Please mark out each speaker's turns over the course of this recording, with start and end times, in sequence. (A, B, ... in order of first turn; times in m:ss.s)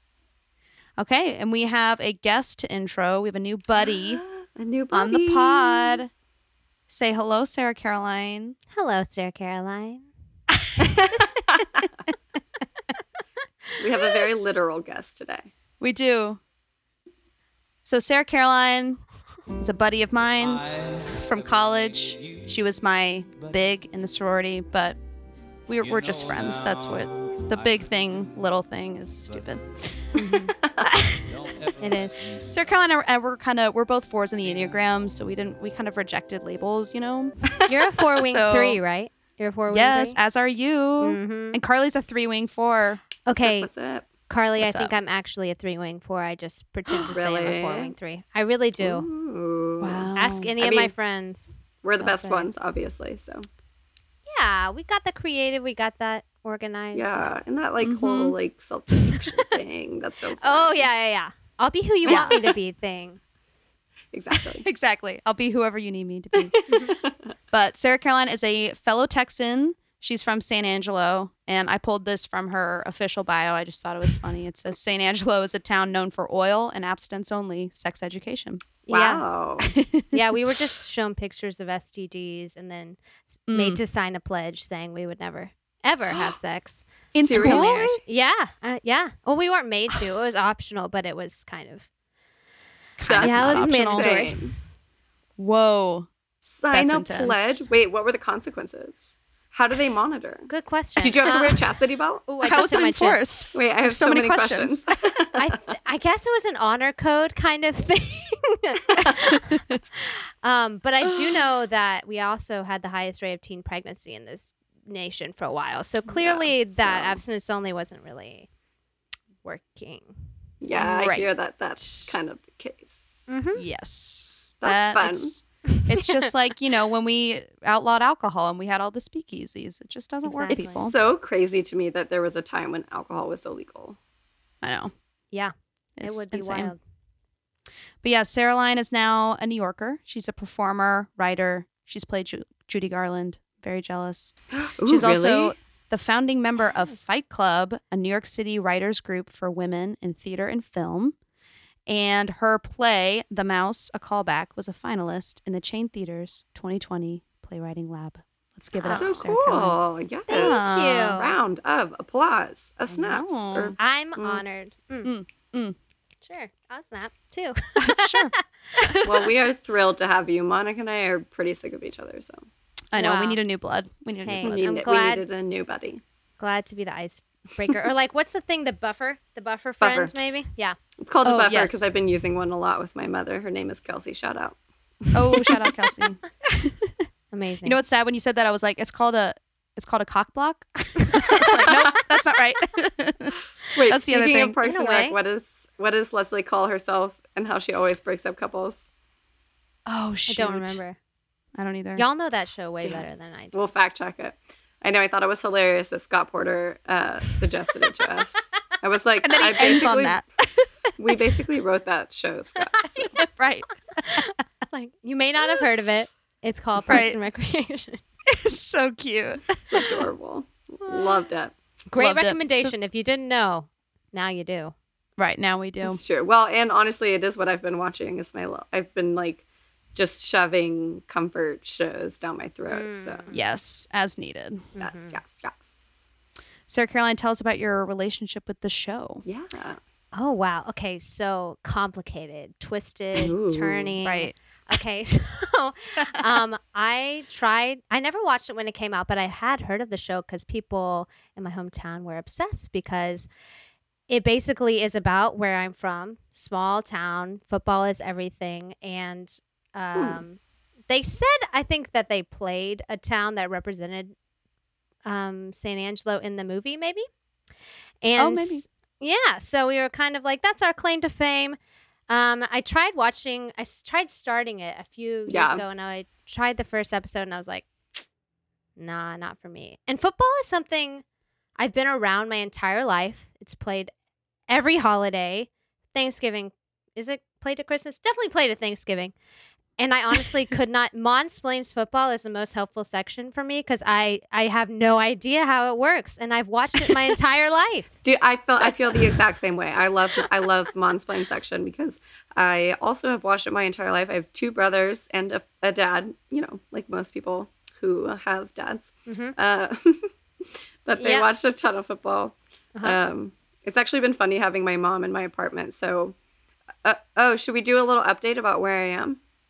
0:01.0-0:04.2 A
0:03.8-0:06.0 B
0:04.9-0:06.1 A
0:06.9-0:08.6 A
0:08.7-0:10.1 C
0:10.9-0:11.8 B
0:13.8-0:15.5 B
0:15.8-0:16.4 A
0:17.8-0:19.0 A
0:19.6-0:25.0 A
0:25.7-0:30.2 A
0:30.2-0:30.5 C
0:30.8-0:31.3 A
0:31.8-0:32.3 C
0:32.5-0:37.7 A
0:37.7-0:40.2 C
0:38.2-0:38.8 A
0:39.7-0:43.0 A
0:41.0-0:41.6 C
0:43.3-0:43.7 C
0:43.4-0:44.1 B
0:44.3-0:49.1 C
0:44.6-0:45.0 A
0:47.0-0:47.9 B
0:48.8-0:50.1 B
0:49.8-0:50.5 A
0:50.2-0:52.5 C
0:50.6-0:50.9 B
0:51.8-0:53.5 B
0:54.3-0:57.4 C
0:56.9-1:00.9 B
0:57.8-0:58.4 A
1:00.4-1:03.2 C
1:02.0-1:02.5 B
1:02.1-1:02.3 A
1:04.1-1:04.6 B
1:04.6-1:06.6 A
1:06.4-1:07.3 B
1:07.5-1:18.6 A
1:18.9-1:19.2 C
1:18.9-1:19.7 B
1:19.7-1:20.1 A
1:20.1-1:31.9 C
1:23.5-1:23.8 A
1:27.1-1:27.9 A
1:27.2-1:28.0 B
1:33.0-1:34.2 A
1:33.1-1:34.5 B
1:33.2-1:34.5 C
1:35.4-1:36.1 A
1:36.4-1:42.3 B
1:36.7-1:37.7 A
1:40.5-1:41.7 C
1:42.3-1:43.2 C
1:42.4-1:44.8 A
1:43.5-1:45.5 B
1:45.4-1:58.5 C
1:56.1-1:57.2 B
1:59.4-2:00.1 C
2:00.6-2:03.3 B
2:00.8-2:02.1 A
2:03.3-2:03.6 C
2:03.6-2:11.0 A
2:04.6-2:05.3 B
2:10.2-2:10.9 C
2:10.5-2:14.0 B
2:14.6-2:14.9 A
2:15.3-2:16.8 C
2:16.0-2:16.7 A
2:18.0-2:24.4 A
2:24.6-2:25.6 B
2:24.9-2:31.2 A
2:26.6-2:27.0 C
2:31.9-2:39.8 A
2:38.8-2:39.2 C
2:38.8-2:44.4 B
2:40.3-2:41.1 A
2:40.3-2:41.4 C
2:42.9-2:43.8 A
2:43.8-2:45.1 C
2:45.0-2:45.8 A
2:46.2-2:48.4 C
2:47.8-2:49.1 A
2:49.0-2:52.4 B
2:52.9-2:54.6 A
2:53.0-2:53.4 C
2:54.2-2:55.4 C
2:54.4-2:56.0 B
2:56.4-3:00.8 C
2:59.8-3:00.1 B
3:01.0-3:04.6 B
3:01.2-3:01.9 A
3:05.1-3:06.9 A
3:05.3-3:05.7 B
3:07.3-3:07.8 C
3:07.6-3:13.4 A
3:13.7-3:18.9 B
3:13.9-3:14.6 A
3:14.6-3:15.2 C
3:19.9-3:20.8 A
3:20.3-3:21.0 C
3:21.6-3:22.0 A
3:22.0-3:23.6 C
3:22.8-3:30.2 B
3:29.2-3:30.7 A
3:31.0-3:33.1 B
3:33.2-3:34.2 A
3:34.1-3:38.0 C
3:36.9-3:37.2 A
3:38.3-3:39.6 A
3:39.7-3:41.6 B
3:41.9-3:44.7 C
3:42.0-3:42.7 A
3:45.2-3:46.0 A
3:45.8-3:53.2 B
3:52.7-3:53.4 C
3:53.3-3:54.6 A
3:54.8-3:55.2 C
3:54.8-3:55.7 B
3:56.7-3:59.2 A
3:59.2-3:59.8 B
4:00.1-4:13.3 C
4:03.2-4:04.0 B
4:04.0-4:04.3 A
4:14.1-4:24.1 C
4:20.0-4:20.2 B
4:25.0-4:27.1 C
4:28.0-4:31.6 C
4:28.2-4:28.6 A
4:32.1-4:37.7 C
4:35.3-4:35.6 B
4:38.8-4:41.0 C
4:41.6-4:43.9 C
4:44.5-4:49.1 C
4:49.8-4:58.0 C
4:58.0-5:10.1 B
5:09.1-5:09.4 C
5:10.9-5:16.2 B
5:11.0-5:11.3 C
5:16.8-5:19.2 B